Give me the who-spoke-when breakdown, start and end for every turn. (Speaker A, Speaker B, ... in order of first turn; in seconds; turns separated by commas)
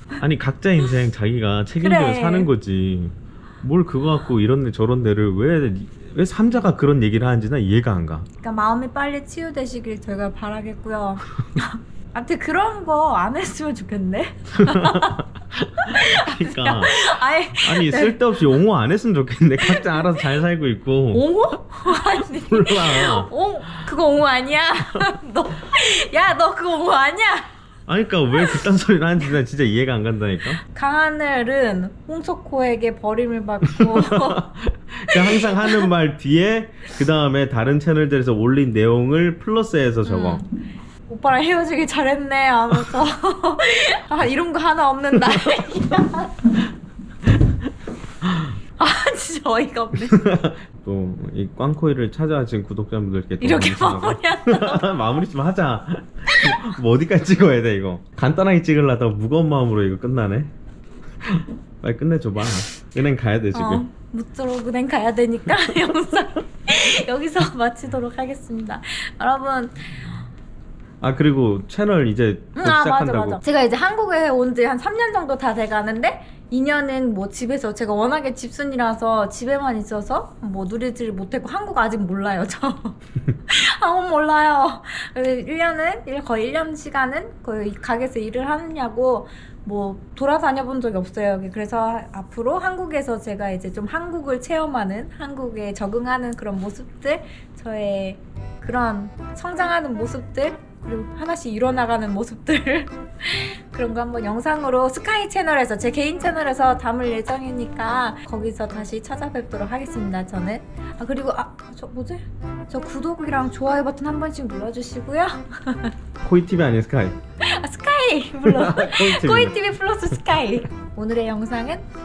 Speaker A: 0.2-8.3, Speaker B: 1.8-2.5, Speaker B: 8.4-15.2, Speaker A: 14.7-21.3, Speaker B: 15.8-18.4, Speaker B: 19.6-20.2, Speaker B: 21.1-27.5, Speaker A: 21.9-23.3, Speaker A: 27.9-30.6, Speaker B: 30.7-34.4, Speaker A: 33.6-40.4, Speaker B: 35.1-35.9, Speaker B: 40.0-40.5, Speaker B: 41.0-46.5, Speaker B: 48.8-50.2, Speaker A: 50.1-60.5, Speaker B: 53.4-54.9, Speaker B: 56.3-56.6, Speaker A: 61.2-63.9, Speaker B: 63.5-70.1, Speaker A: 71.0-73.4, Speaker B: 72.5-115.9, Speaker A: 116.2-117.2, Speaker B: 117.4-121.8, Speaker A: 118.4-119.6